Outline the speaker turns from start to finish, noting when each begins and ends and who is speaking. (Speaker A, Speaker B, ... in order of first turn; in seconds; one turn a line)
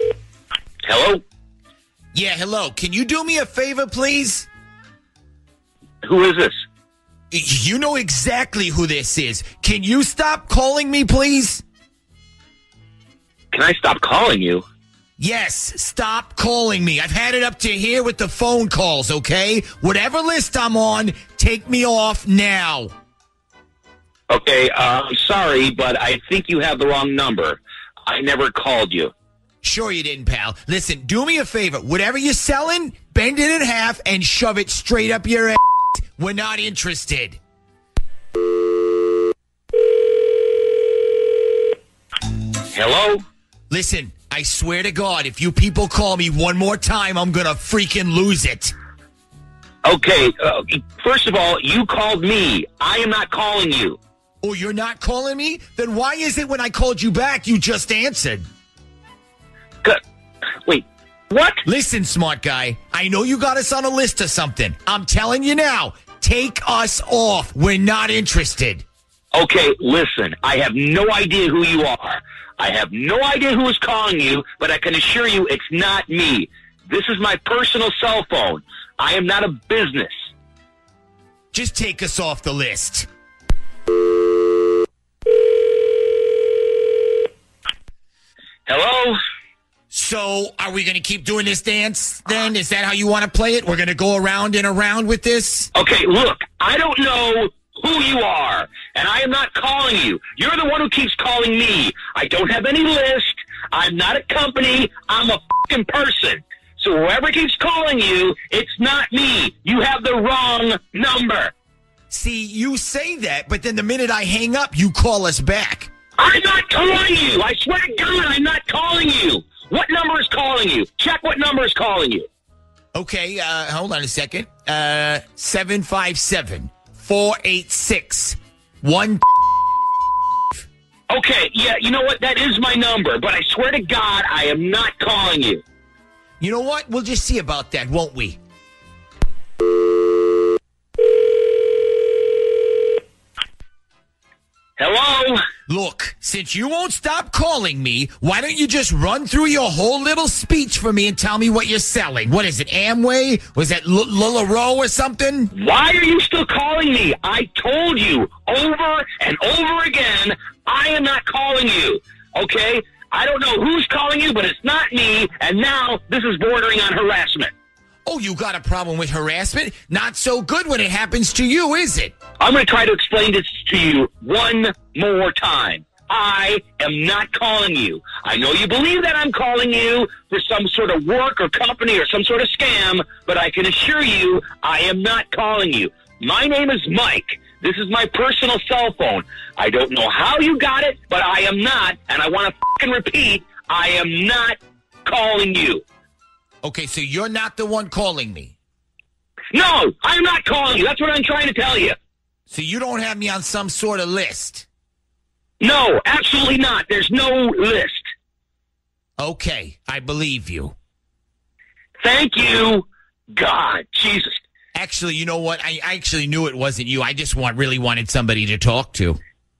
Speaker A: 0.8-1.2
Speaker B: 2.1-4.5
Speaker A: 6.0-6.6
Speaker B: 7.3-11.6
Speaker A: 13.5-14.7
Speaker B: 15.2-22.9
Speaker A: 24.3-29.1
Speaker B: 29.6-37.4
Speaker A: 42.7-43.2
Speaker B: 43.7-48.7
Speaker A: 49.8-54.0
Speaker B: 54.4-58.4
Speaker A: 60.6-61.6
Speaker B: 61.7-68.8
Speaker A: 69.3-80.1
Speaker B: 81.5-83.1
Speaker A: 88.7-89.2
Speaker B: 89.9-95.7
Speaker A: 95.7-111.5
Speaker B: 112.1-115.9
Speaker A: 116.2-122.3
Speaker B: 123.0-129.2
Speaker A: 131.1-135.6
Speaker B: 136.4-138.4
Speaker A: 144.8-145.4
Speaker B: 145.7-155.5
Speaker A: 155.5-167.5
Speaker B: 168.1-172.2
Speaker A: 172.4-195.8
Speaker B: 196.6-198.6
Speaker A: 199.5-202.0
Speaker B: 202.5-204.7
Speaker A: 205.6-208.0
Speaker B: 209.2-210.8
Speaker A: 212.0-214.4
Speaker B: 214.8-219.2